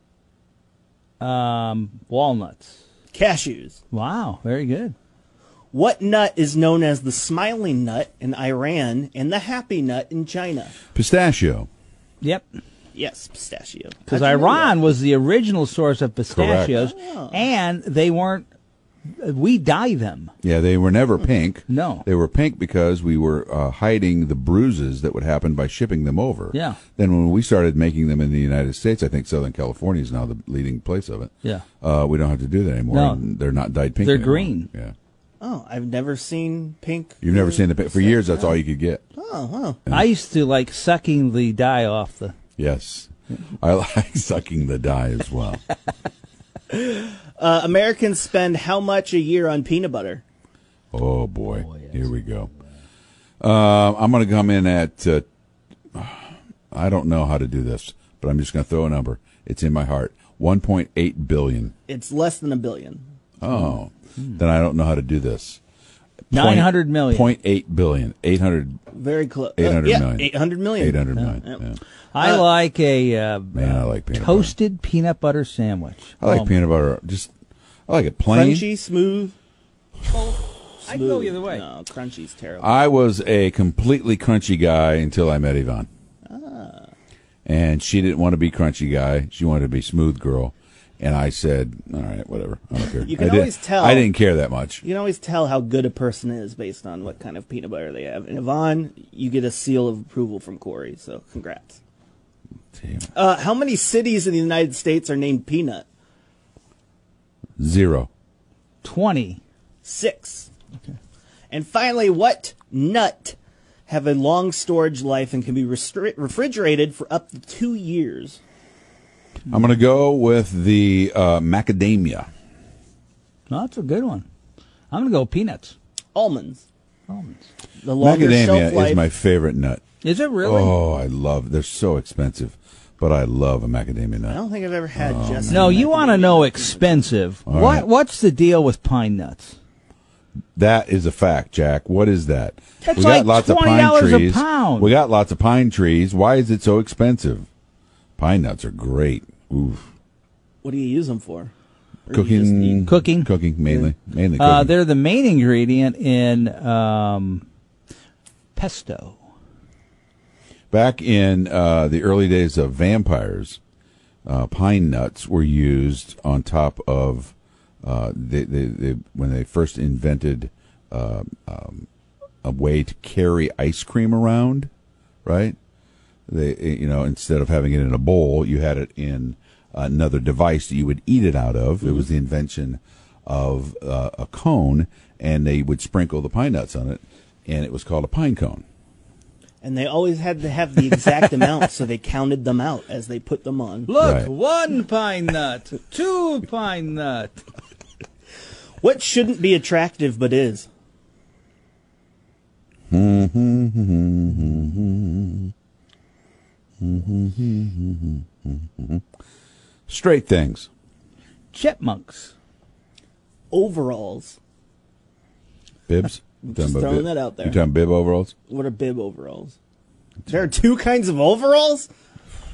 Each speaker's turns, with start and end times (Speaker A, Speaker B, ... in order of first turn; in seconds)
Speaker A: 1.2-2.8, 3.9-5.0, 14.1-18.5, 19.1-20.3, 21.7-22.1, 26.5-26.8, 32.9-33.2, 34.0-34.7, 39.9-42.4, 51.7-52.1, 66.3-67.3, 72.1-76.5, 80.1-81.6, 108.8-109.4, 123.5-124.3, 124.9-125.8, 127.1-127.4, 130.0-130.9, 135.5-139.6, 142.8-144.9, 152.9-153.3, 154.4-157.4, 158.6-159.2, 193.9-197.4, 211.5-212.3
Speaker B: 3.1-3.8, 5.7-10.8, 12.9-14.8, 16.7-17.5, 35.4-38.6, 39.2-39.8, 46.7-50.2, 61.9-63.0, 68.9-71.6, 72.2-72.5, 78.3-79.3, 80.9-82.8, 86.3-86.9, 93.0-94.1, 94.8-101.8, 103.1-105.9, 109.8-110.5, 111.5-113.4, 113.9-118.4, 126.1-126.7, 127.8-129.1, 134.3-137.1, 142.9-143.1, 150.6-151.5, 152.1-152.9, 189.6-193.9, 198.8-200.7, 213.5-214.4, 216.4-217.6, 218.5-219.6, 220.3-221.9
Speaker C: 10.9-11.7, 16.3-16.8, 20.4-34.9, 37.2-39.0, 42.6-45.6, 50.9-52.5, 53.4-55.2, 56.0-61.7, 63.4-65.6, 66.3-68.8, 69.6-71.8, 73.5-74.5, 76.2-77.3, 77.9-78.7, 82.6-85.9, 87.5-94.8, 102.8-103.1, 107.6-108.1, 119.5-122.3, 128.0-129.8, 130.4-134.4, 135.0-135.8, 137.5-137.9, 140.6-147.5, 148.2-149.9, 152.1-154.7, 160.7-163.6, 164.3-171.9, 172.4-174.7, 175.2-175.6, 176.3-188.6, 194.0-194.3, 202.9-205.5, 206.8-209.0, 209.9-210.7, 215.9-218.3